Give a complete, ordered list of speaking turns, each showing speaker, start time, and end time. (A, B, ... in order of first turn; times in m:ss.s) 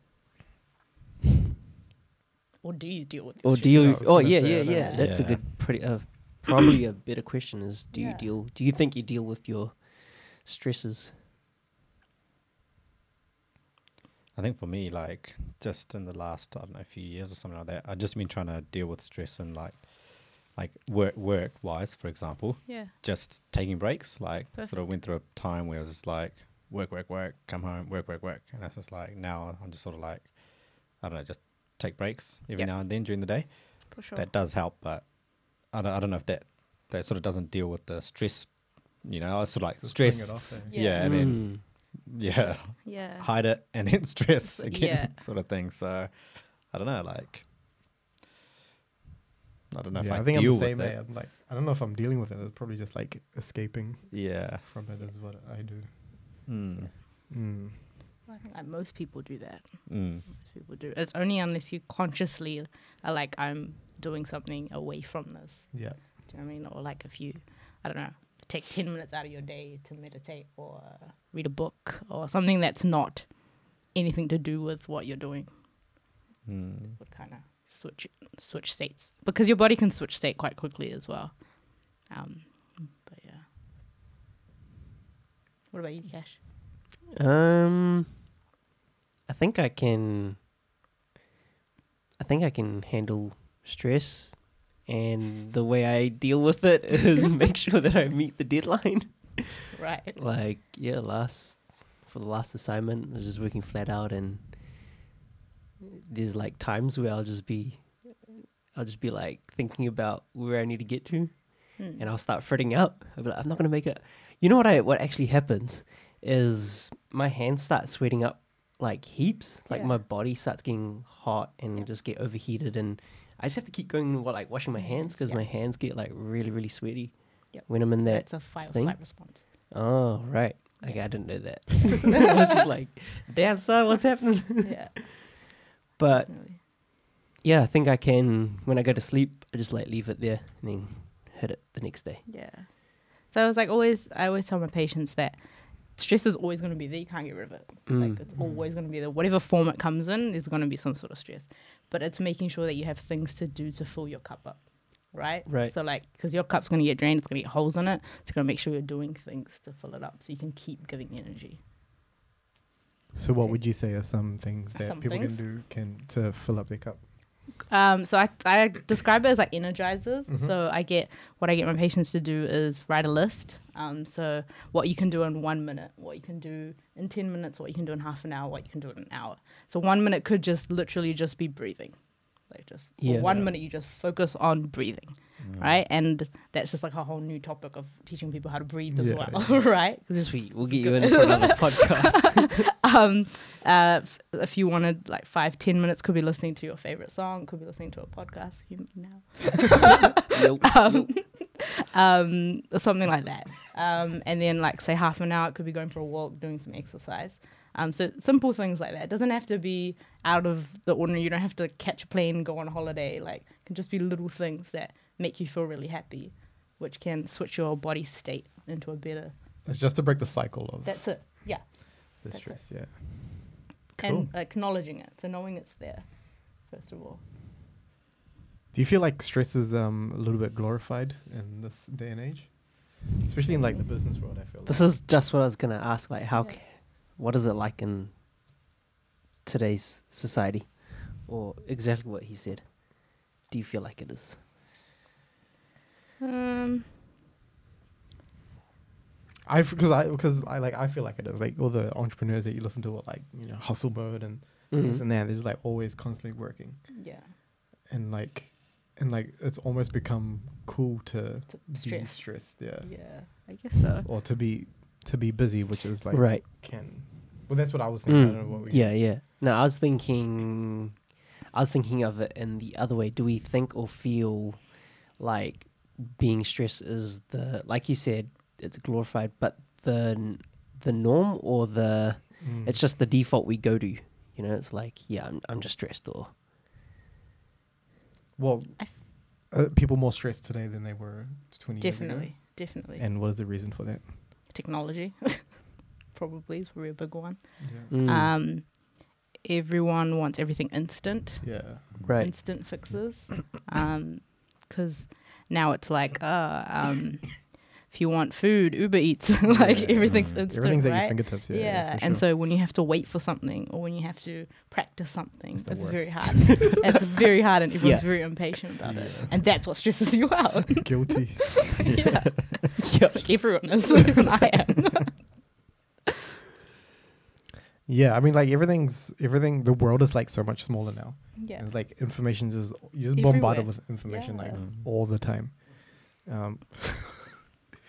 0:02.6-0:05.0 A
0:03.4-0:11.2 B
0:03.7-0:05.0 C
0:05.0-0:05.4 D
0:07.9-0:08.3 A
0:14.3-0:47.5 D
0:22.6-0:22.9 A
0:24.5-0:24.9 A
0:32.5-0:32.9 A
0:33.9-0:34.3 A
0:39.8-0:40.7 C
0:40.7-0:41.3 A
0:41.0-0:41.6 B
0:42.3-0:43.3 A
0:44.4-0:45.2 A
0:49.7-0:51.0 D
0:49.9-0:56.6 C
0:54.1-0:54.6 D
0:56.4-0:56.9 D
0:57.3-0:57.9 C
0:58.2-1:15.9 A
0:59.9-1:00.2 D
1:05.7-1:06.0 C
1:16.4-1:17.0 D
1:17.0-1:23.5 A
1:25.7-1:26.4 A
1:27.1-1:28.3 B
1:29.3-1:30.4 B
1:32.2-1:44.9 B
1:39.7-1:40.2 A
1:45.9-2:15.1 B
1:51.8-1:52.1 A
1:59.7-2:00.0 A
2:04.8-2:05.5 A
2:07.5-2:09.4 A
2:10.8-2:11.7 A
2:14.6-2:15.4 A
2:16.0-2:16.3 B
2:16.3-2:16.6 A
2:17.4-2:22.2 B
2:22.3-2:41.6 A
2:27.9-2:28.2 B
2:28.4-2:28.6 C
2:35.4-2:35.7 B
2:43.1-2:47.0 C
2:43.4-2:43.7 A
2:44.7-2:45.4 A
2:47.7-3:39.3 A
2:50.3-2:50.5 C
3:03.0-3:03.3 B
3:03.2-3:03.6 C
3:05.4-3:05.8 D
3:08.9-3:09.6 C
3:10.1-3:12.6 B
3:20.2-3:21.1 B
3:39.6-3:41.5 C
3:40.8-3:42.7 A
3:42.2-3:44.3 C
3:44.0-3:47.2 A
3:48.7-3:54.9 C
3:53.5-3:53.8 A
3:54.6-3:58.1 B
3:56.3-3:56.6 A
3:59.4-4:04.4 B
4:06.2-4:06.9 A
4:09.4-4:17.0 C
4:14.7-4:15.0 B
4:16.9-4:17.3 A
4:17.8-4:23.5 C
4:21.5-4:24.1 A
4:24.0-4:29.1 C
4:26.1-4:26.4 B
4:28.1-4:46.3 B
4:42.4-4:42.8 C
4:48.4-4:54.3 C
4:51.8-4:53.0 A
4:54.5-5:25.4 A
4:57.6-4:57.9 C
4:57.9-4:58.3 B
5:01.4-5:02.1 C
5:02.0-5:02.3 B
5:09.5-5:12.2 C
5:10.0-5:10.4 D
5:15.6-5:16.6 C
5:17.8-5:18.3 B
5:18.8-5:19.4 C
5:20.8-5:21.9 C
5:22.8-5:23.4 B
5:27.8-5:37.4 C
5:31.4-5:31.6 A
5:33.1-5:34.6 A
5:34.5-5:34.9 D